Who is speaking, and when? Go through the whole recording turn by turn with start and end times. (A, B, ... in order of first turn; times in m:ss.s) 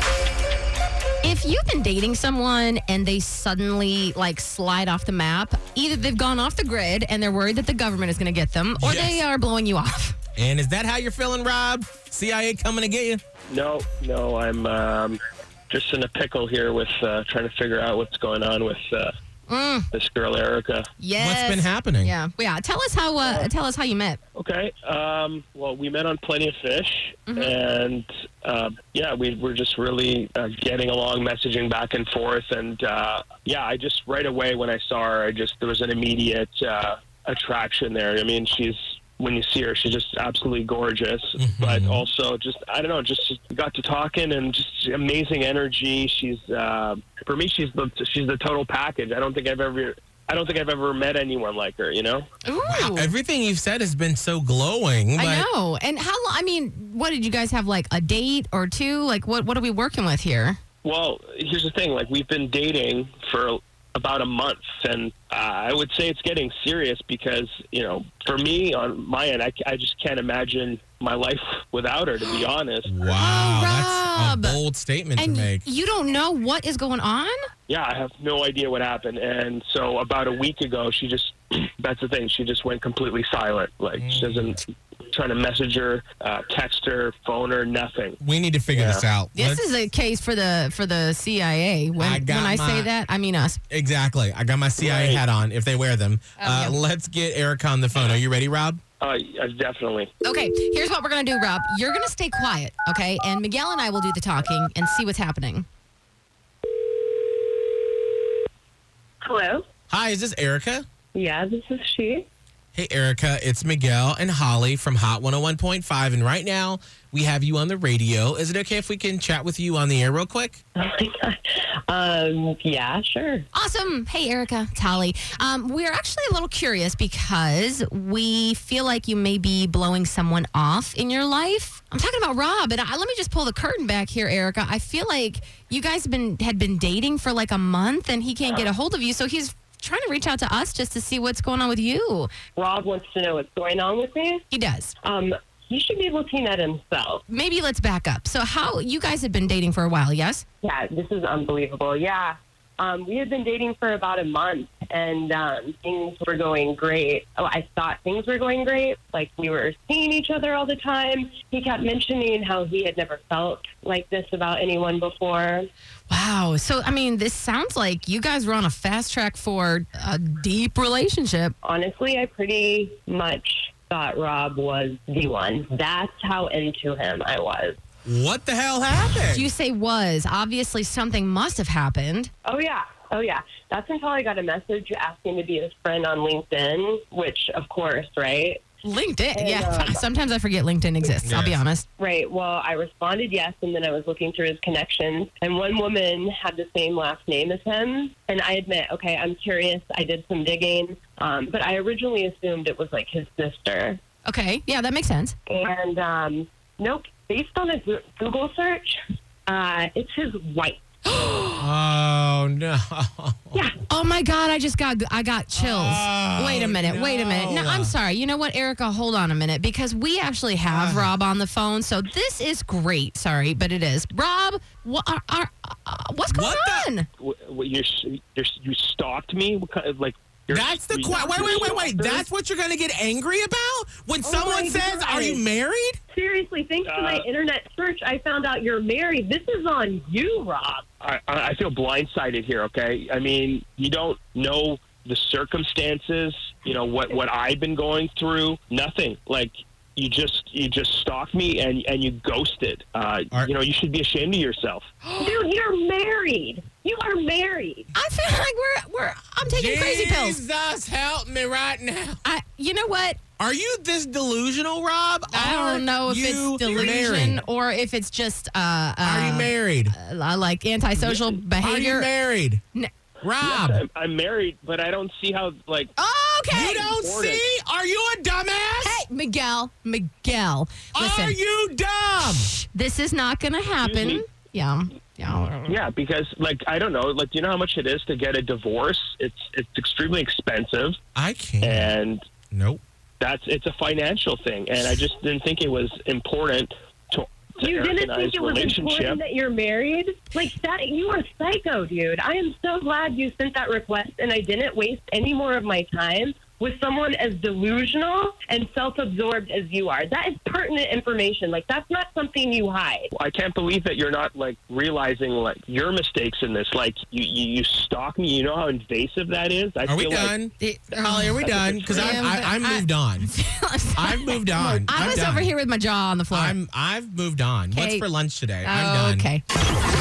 0:01.2-0:10.2 A
0:08.8-0:09.2 B
0:10.4-0:13.2 B
0:13.5-0:15.2 C
0:15.7-0:19.1 C
0:19.5-0:19.9 A
0:19.9-0:20.9 C
0:21.0-0:24.2 A
0:21.2-0:22.1 B
0:24.4-0:52.2 C
0:27.3-0:27.5 A
0:41.4-0:42.0 B
0:52.4-0:53.1 A
0:52.6-0:55.4 B
0:55.2-1:00.6 A
1:00.8-1:12.9 C
1:12.8-1:15.6 B
1:13.1-1:14.6 A
1:15.2-1:17.3 A
1:17.7-1:28.2 C
1:24.0-1:24.5 B
1:28.2-1:29.6 B
1:28.7-1:29.0 C
1:29.3-1:33.6 A
1:32.0-1:32.9 B
1:33.7-1:38.8 B
1:34.8-1:35.2 C
1:36.4-1:36.8 A
1:39.0-1:40.1 C
1:40.2-1:45.6 A
1:49.2-1:49.6 D
1:49.9-1:50.8 B
1:51.1-1:52.2 D
1:52.7-2:00.6 B
2:00.8-2:03.4 D
2:03.5-2:22.3 A
2:22.6-2:24.4 D
2:24.5-2:24.9 A
2:25.0-2:27.2 D
2:27.3-2:30.4 A
2:30.6-2:45.7 D
2:46.1-2:51.5 A
2:51.6-2:57.8 D
2:58.0-2:59.5 B
2:59.2-3:02.3 A
3:02.4-3:08.6 D
3:08.8-3:11.8 A
3:09.3-3:10.0 D
3:11.2-3:11.6 B
3:12.0-3:24.0 D
3:24.2-3:25.3 A
3:25.5-3:30.8 D
3:31.1-3:31.6 A
3:31.6-3:33.6 B
3:33.9-3:47.1 A
3:35.6-3:37.9 B
3:40.7-3:41.1 B
3:46.3-3:46.9 B
3:47.2-3:52.2 C
3:50.5-3:56.0 B
3:54.2-3:55.4 D
3:56.1-4:00.8 D
3:56.8-3:57.2 C
4:01.0-4:14.9 C
4:15.2-4:17.9 D
4:17.9-4:20.4 A
4:19.4-4:22.2 B
4:22.2-4:23.2 A
4:23.4-4:27.4 B
4:25.3-4:32.1 A
4:29.0-4:29.9 B
4:30.9-4:31.4 C
4:31.6-4:32.6 B
4:33.2-4:33.8 B
4:33.4-4:35.9 C
4:36.0-4:36.9 A
4:36.5-4:39.0 B
4:36.8-4:37.4 C
4:38.8-4:41.4 A
4:40.9-4:42.5 B
4:42.3-4:45.8 A
4:43.8-4:44.2 C
4:45.7-4:51.0 C
4:51.2-4:51.9 B
4:51.6-4:52.2 C
4:52.5-4:52.8 B
4:53.2-4:59.2 C
4:57.6-5:13.1 D
5:13.1-5:20.4 C
5:19.8-5:23.3 B
5:20.6-5:26.6 A
5:20.9-5:22.2 C
5:24.0-5:25.5 B
5:26.3-5:29.3 B
5:27.7-5:28.1 A
5:28.6-5:29.4 A